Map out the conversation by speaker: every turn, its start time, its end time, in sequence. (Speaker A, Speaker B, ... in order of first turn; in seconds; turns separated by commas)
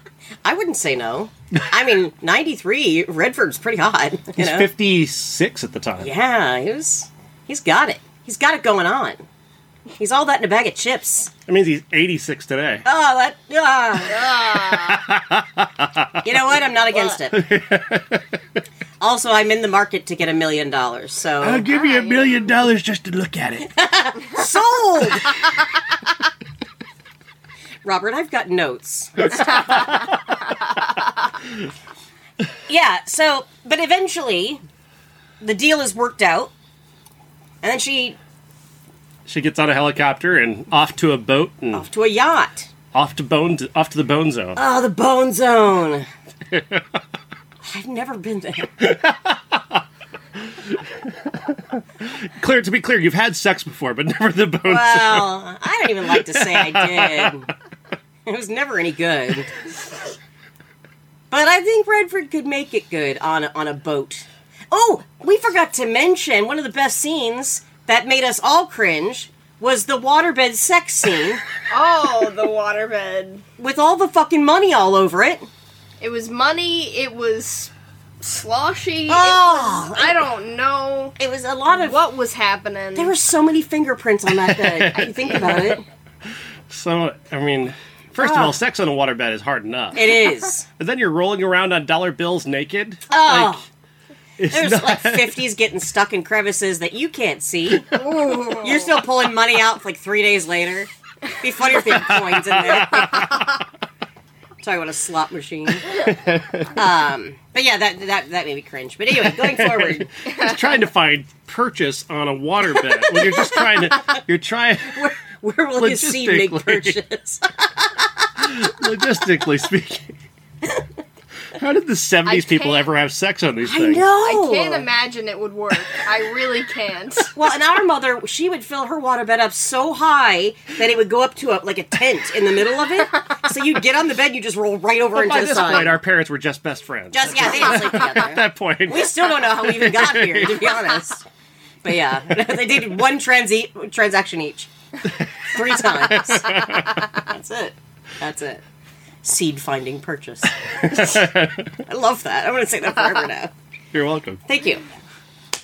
Speaker A: 0.4-4.7, Speaker B: 4.4-6.1, Speaker A: 6.0-9.2, Speaker A: 10.0-11.3, Speaker B: 11.5-12.8, Speaker A: 12.8-14.3, Speaker C: 14.1-15.0, Speaker B: 14.5-16.3, Speaker A: 16.2-17.5, Speaker B: 17.3-18.3, Speaker A: 19.0-21.7, Speaker B: 21.4-23.7, Speaker C: 21.8-22.4, Speaker A: 23.7-25.4, Speaker A: 27.8-30.1, Speaker A: 32.7-34.6, Speaker A: 35.4-36.5, Speaker A: 37.6-38.2, Speaker B: 39.3-41.9, Speaker A: 41.7-42.7, Speaker B: 42.9-44.6, Speaker A: 44.6-46.1, Speaker B: 46.5-46.8, Speaker A: 47.6-48.8, Speaker B: 48.8-49.8, Speaker B: 50.4-55.4, Speaker A: 54.6-57.5, Speaker B: 56.0-57.4, Speaker A: 58.3-59.5, Speaker A: 61.3-71.4, Speaker C: 71.7-73.4, Speaker A: 73.6-75.5, Speaker C: 76.0-77.7, Speaker C: 78.2-81.2, Speaker A: 79.1-80.2, Speaker A: 81.2-82.0, Speaker C: 81.7-83.1, Speaker A: 83.0-85.8, Speaker B: 84.3-85.8, Speaker B: 86.7-93.6, Speaker A: 88.2-88.6, Speaker A: 89.9-90.7, Speaker A: 93.1-93.7, Speaker B: 94.4-95.4, Speaker A: 94.5-103.5, Speaker C: 97.8-99.0, Speaker B: 101.9-103.5, Speaker A: 104.6-106.0, Speaker B: 105.9-106.8, Speaker A: 106.7-110.1, Speaker B: 109.2-115.1, Speaker C: 110.3-110.6, Speaker A: 113.1-113.6, Speaker A: 114.9-118.3, Speaker B: 115.8-117.0, Speaker B: 118.4-120.1, Speaker B: 121.5-124.1, Speaker C: 122.3-122.9, Speaker A: 123.6-124.9, Speaker C: 124.2-127.3, Speaker A: 127.3-136.0, Speaker B: 135.1-140.9, Speaker A: 137.1-141.2, Speaker A: 141.8-144.7, Speaker A: 145.4-148.6, Speaker B: 145.5-147.0, Speaker A: 149.2-151.3, Speaker B: 150.8-151.7, Speaker A: 151.9-153.5, Speaker B: 153.9-154.4, Speaker A: 154.5-154.8